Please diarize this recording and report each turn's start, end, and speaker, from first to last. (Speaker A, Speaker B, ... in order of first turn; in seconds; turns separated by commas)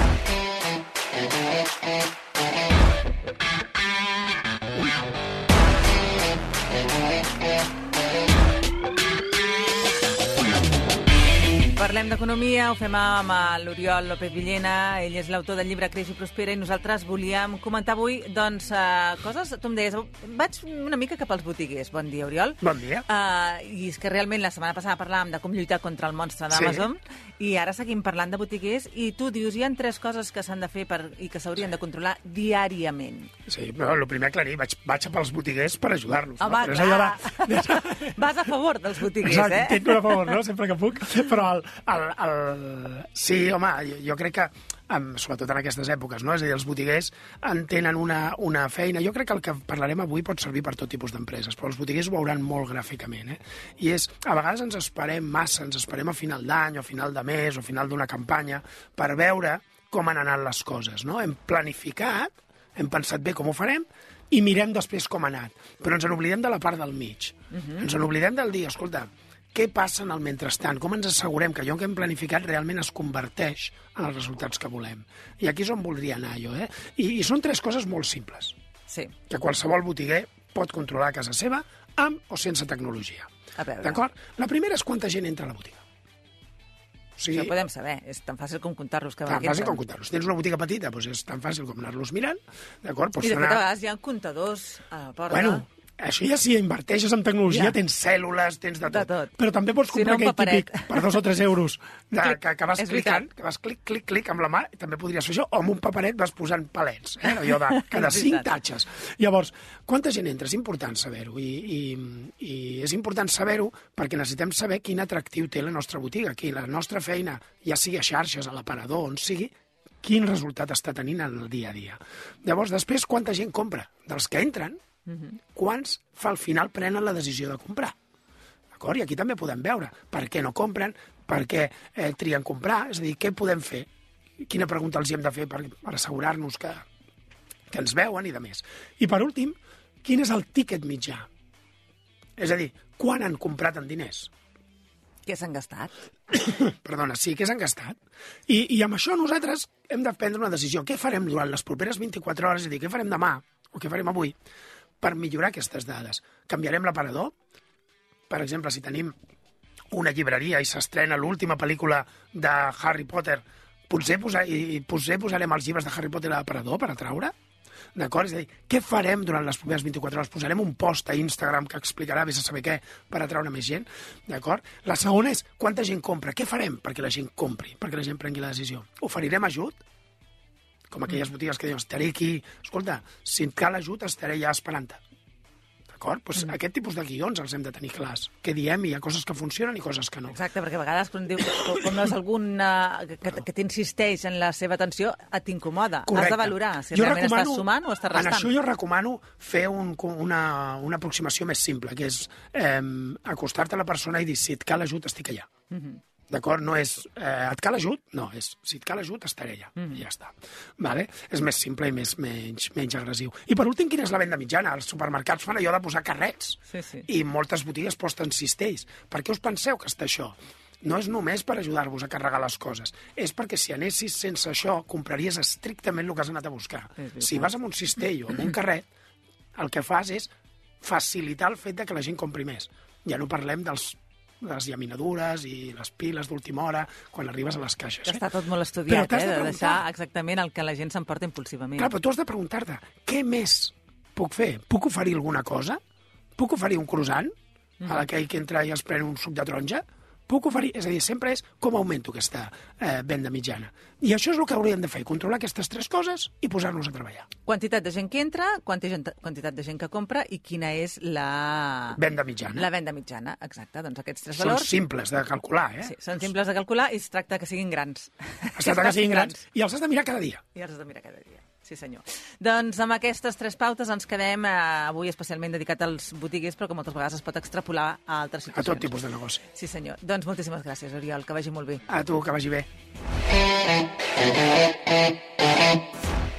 Speaker A: 11.7-33.3, Speaker B: 22.6-23.1, Speaker B: 26.5-26.9, Speaker B: 33.5-38.2, Speaker A: 36.4-40.4, Speaker B: 39.2-78.5, Speaker A: 67.5-67.8, Speaker A: 78.9-79.1, Speaker B: 79.3-83.3, Speaker A: 83.6-84.0, Speaker B: 83.8-85.8, Speaker B: 87.2-87.5, Speaker A: 87.3-89.8, Speaker B: 89.3-93.6, Speaker A: 93.2-95.7, Speaker B: 95.3-124.8, Speaker A: 97.5-97.8, Speaker A: 98.9-99.3, Speaker A: 99.9-101.1, Speaker A: 102.2-103.2, Speaker A: 107.4-108.5, Speaker A: 125.1-125.4, Speaker B: 125.5-128.0, Speaker B: 128.7-133.9, Speaker B: 134.4-136.8, Speaker B: 137.7-141.3, Speaker B: 142.4-144.3, Speaker A: 145.2-145.9, Speaker B: 146.3-148.0, Speaker B: 148.5-154.3, Speaker B: 155.0-157.3, Speaker B: 158.3-159.1, Speaker B: 159.9-167.3, Speaker B: 168.0-179.8, Speaker B: 180.9-185.0, Speaker B: 185.9-190.4, Speaker A: 190.3-198.5, Speaker B: 196.1-205.5, Speaker A: 205.7-206.0, Speaker B: 206.3-228.9, Speaker A: 209.8-210.0, Speaker A: 216.7-217.1, Speaker A: 227.0-227.5, Speaker B: 229.6-238.2, Speaker A: 238.1-241.9, Speaker B: 238.9-239.8, Speaker B: 241.8-245.8, Speaker B: 246.4-247.3, Speaker B: 247.8-257.3, Speaker A: 257.5-262.0, Speaker B: 261.9-262.7, Speaker A: 262.5-264.7, Speaker B: 264.4-266.3, Speaker A: 265.8-269.4, Speaker B: 268.6-270.4, Speaker A: 270.6-278.9, Speaker B: 278.5-279.4, Speaker A: 279.5-281.9, Speaker B: 281.9-282.7